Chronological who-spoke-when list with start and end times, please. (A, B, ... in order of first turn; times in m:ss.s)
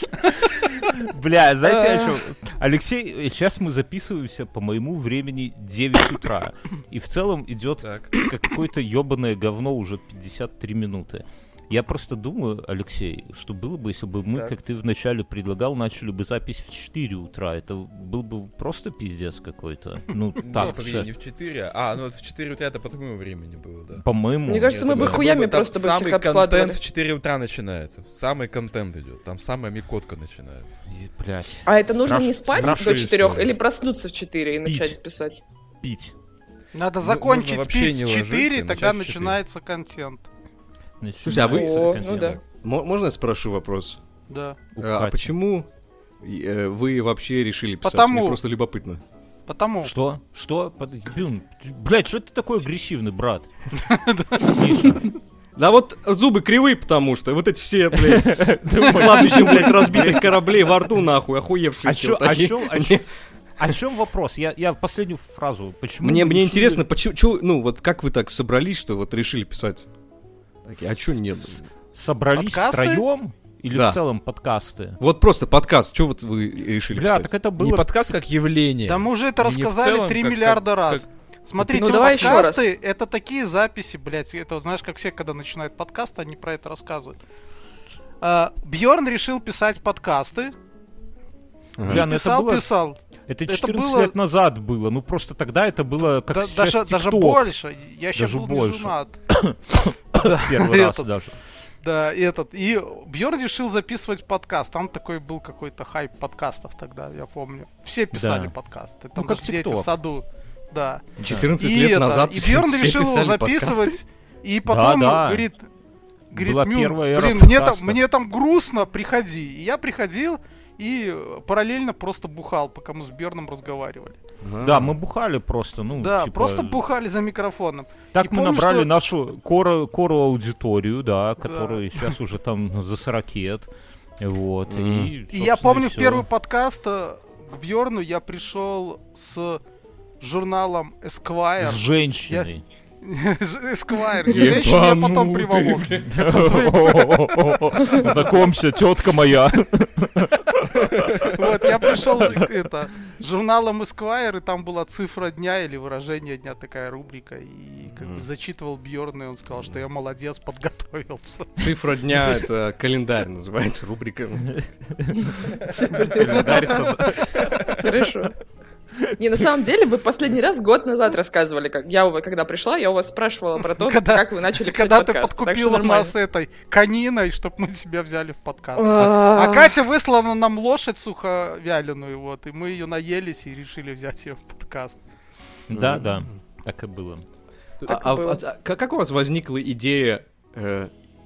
0:00.2-0:21.1 A
0:07.8-0:08.1 B
0:20.4-0:30.8 B
0:24.0-0:25.2 A
0:24.5-0:26.8 C
0:30.9-0:33.6 A
0:31.6-0:35.4 C
0:32.6-0:33.2 B
0:34.6-0:35.0 A
0:35.8-0:36.1 A
0:36.7-0:40.3 D
0:37.0-0:39.4 B
0:41.0-0:42.4 A
0:41.2-0:42.0 E
0:41.3-0:42.4 C
0:42.1-0:42.4 B
0:42.6-0:44.0 E
0:44.3-0:44.6 D
0:44.8-0:45.3 A
0:44.8-0:45.7 E
0:46.2-0:49.0 E
0:47.8-0:48.4 D
0:49.5-0:49.9 D
0:49.8-0:53.5 A
0:53.9-0:54.6 D
0:54.4-0:55.1 A
0:55.6-1:03.1 E
0:58.0-1:00.4 A
1:01.8-1:03.0 A
1:03.6-1:06.8 A
1:06.0-1:09.8 E
1:10.6-1:11.7 E
1:11.9-1:15.0 A
1:12.3-1:13.1 D
1:13.7-1:14.0 E
1:15.0-1:17.3 E
1:16.9-1:17.9 A
1:17.6-1:21.0 B
1:18.9-1:27.2 D
1:21.6-1:22.6 C
1:28.2-1:30.5 D
1:31.8-1:32.7 A
1:31.9-1:34.1 D
1:33.3-1:37.4 A
1:36.3-1:39.2 D
1:38.1-1:41.4 A
1:40.2-1:41.1 D
1:41.8-1:55.7 D
1:48.1-1:48.5 A
1:49.2-1:49.9 A
1:51.2-1:54.0 E
1:51.2-1:51.5 A
1:54.7-1:55.5 A
1:56.3-1:58.0 A
1:56.3-2:04.2 D
2:04.4-2:05.0 E
2:04.6-2:06.8 A
2:06.0-2:08.9 D
2:08.1-2:16.3 A
2:11.4-2:12.1 D
2:14.7-2:15.1 E
2:15.3-2:19.6 D
2:20.2-2:22.5 D
2:21.6-2:22.6 A
2:23.0-2:28.3 D
2:24.2-2:26.2 E
2:26.1-2:31.4 A
2:31.1-2:41.7 D
2:38.0-2:38.2 E
2:41.6-2:44.6 E
2:45.0-2:48.1 A
2:45.8-2:46.8 C
2:47.6-2:48.3 C
2:49.2-2:56.2 C
2:53.8-3:05.0 D
2:58.8-2:59.8 C
3:05.7-3:07.2 A
3:05.7-3:06.3 E
3:07.8-3:10.9 E
3:07.9-3:08.4 C